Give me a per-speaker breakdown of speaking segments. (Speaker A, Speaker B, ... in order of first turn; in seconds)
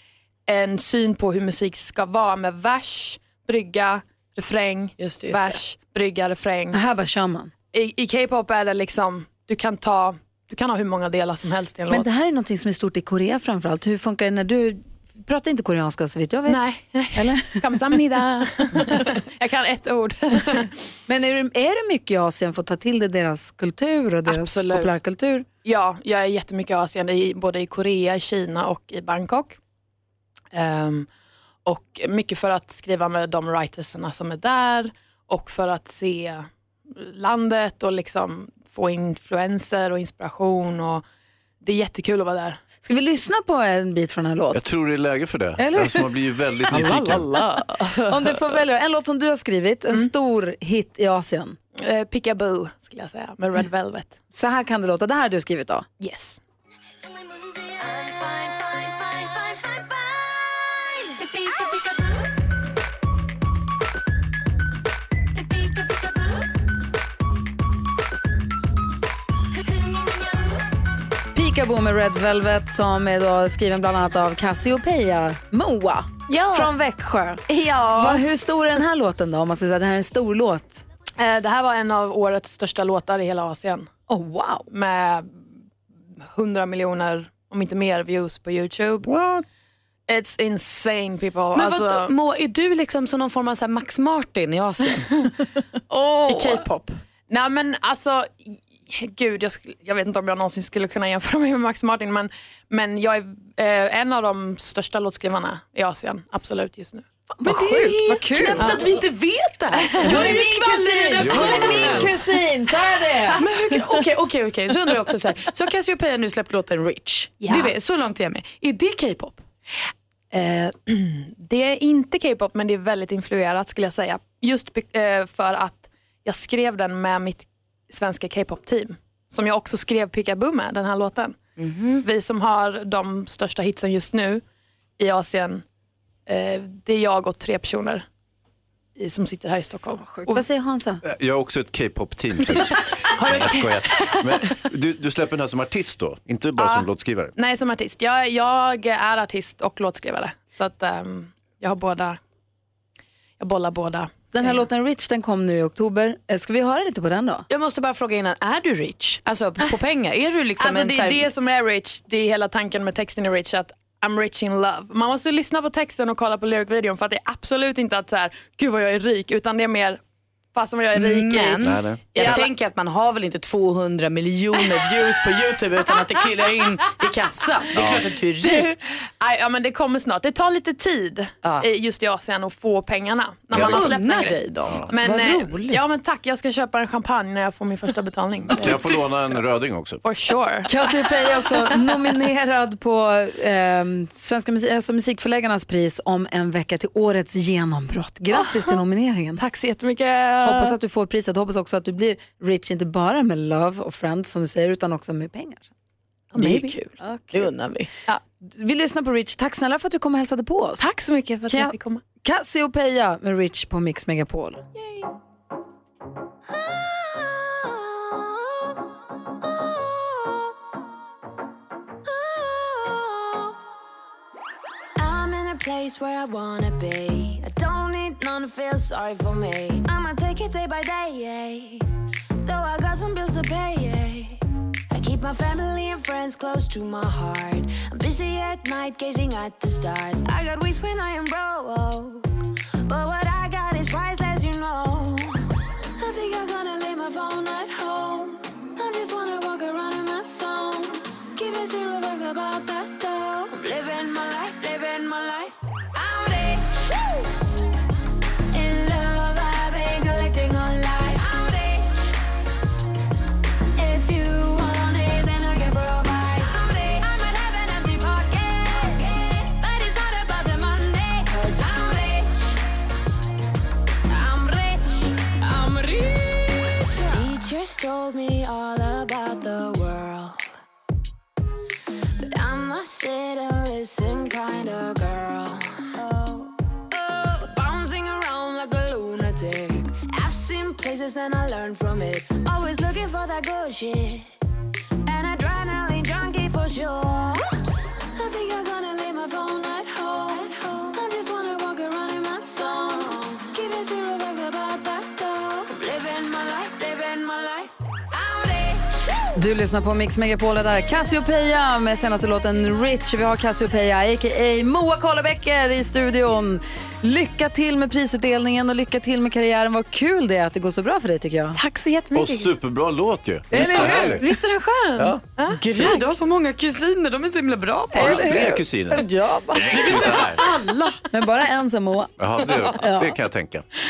Speaker A: 0.5-6.8, 7.7-12.1, 16.5-20.7, 24.3-25.0, 25.6-29.6, 30.5-31.1, 31.7-41.0, 41.6-42.6, 46.9-48.6, 51.8-54.2, 56.0-56.4, 76.3-76.7, 77.5-78.2, 81.2-83.9, 84.7-85.4, 86.3-89.1, 90.1-92.1, 96.2-96.6, 97.3-107.1, 108.6-108.9, 109.8-110.4, 117.4-117.8, 120.3-131.4, 132.0-134.4, 135.0-135.6, 136.3-138.1, 139.0-140.5, 143.2-143.7, 146.6-152.2, 153.4-154.7, 160.6-170.0, 170.6-172.5, 178.4-189.1, 190.0-190.8, 198.3-198.8, 199.4-200.8, 206.3-206.7, 210.8-212.0, 321.5-322.6, 323.8-326.1
Speaker B: 5.0-5.6, 91.5-95.1, 96.3-97.0, 107.4-112.1, 113.3-119.4, 131.6-132.0, 157.5-161.3, 170.9-178.7, 183.5-185.8, 206.4-207.9, 325.5-328.5, 329.6-331.0
Speaker C: 6.7-7.5, 11.9-17.6, 21.1-25.5, 42.8-44.6, 45.6-46.1, 46.8-47.4, 48.1-51.6, 54.3-55.9, 71.3-80.8, 84.1-84.7, 107.4-108.8, 110.0-113.4, 139.9-141.0, 154.3-157.4, 190.7-199.4, 200.4-205.7, 206.5-207.5, 208.4-210.9, 211.5-214.6, 309.4-321.6, 323.5-324.6, 327.9-330.2, 331.1-333.2
Speaker D: 44.5-47.3, 111.2-112.1, 141.0-147.3, 171.6-172.2, 177.8-178.1, 183.5-183.9, 184.7-184.9, 188.6-190.0, 322.1-324.2, 327.9-330.4, 332.2-333.7
Speaker E: 57.2-62.3, 65.3-66.5, 69.6-70.6, 216.6-218.5, 219.8-220.5, 222.1-223.6, 225.0-231.8, 232.4-242.3, 242.9-245.4, 246.0-256.9, 258.5-262.1, 263.8-272.6, 274.1-280.4, 282.2-294.3, 295.1-297.6, 298.1-308.9